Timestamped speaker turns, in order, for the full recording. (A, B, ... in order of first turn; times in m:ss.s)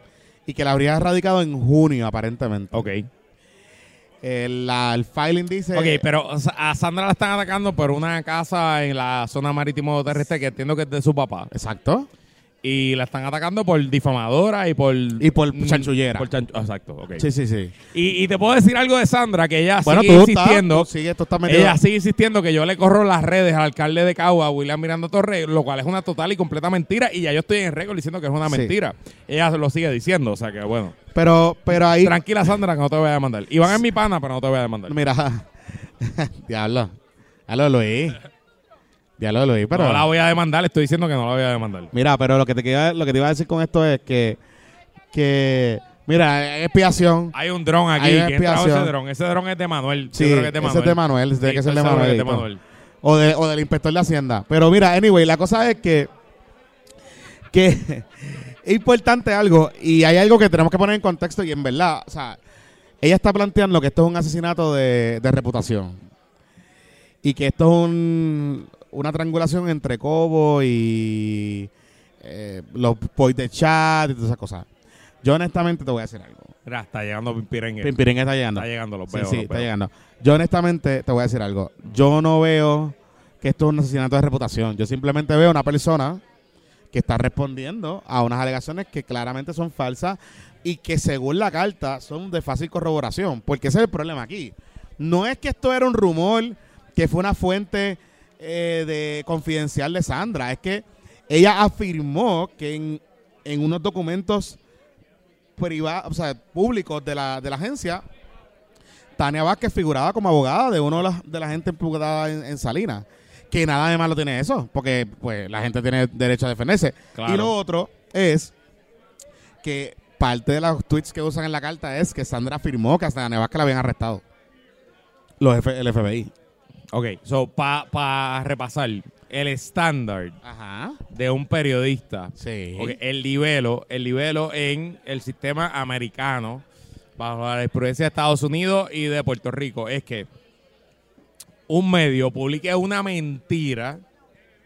0:00.5-0:02.9 A
0:02.7-0:03.1 B
0:04.2-0:06.0 A
0:05.7-0:11.5 B
0:11.5-0:12.1 A
0:12.6-0:17.3 B
0:15.2-0:16.3 A
0:17.2-0:17.7 A
0:17.9-0:20.9 B
0:19.8-0:21.8 A
0:21.5-0:31.0 B
0:28.5-0:28.7 A
0:31.1-0:32.2 A
0:31.7-0:35.0 B
0:34.9-0:35.5 A
0:36.0-0:36.9 A
0:37.5-0:38.2 A
0:39.2-0:40.1 A
0:39.7-0:41.9 B
0:41.9-0:44.4 A
0:45.1-0:47.3 A
0:47.3-0:52.6 B
0:48.0-0:48.9 A
0:50.1-0:52.5 A
0:53.0-0:56.1 A
0:57.5-1:02.4 A
1:03.0-1:06.0 A
1:07.2-1:11.7 A
1:12.2-1:14.7 A
1:15.2-1:16.5 A
1:16.7-1:17.9 B
1:17.8-1:26.2 A
1:18.6-1:19.7 B
1:26.9-1:44.6 A
1:45.6-1:48.0 A
1:49.2-1:58.5 A
1:57.2-1:57.5 B
1:59.6-2:04.2 A
2:05.4-2:06.3 A
2:06.9-2:10.4 B
2:10.4-2:11.0 A
2:11.1-2:16.6 B
2:12.4-2:13.0 A
2:17.2-2:20.3 B
2:21.7-2:24.0 B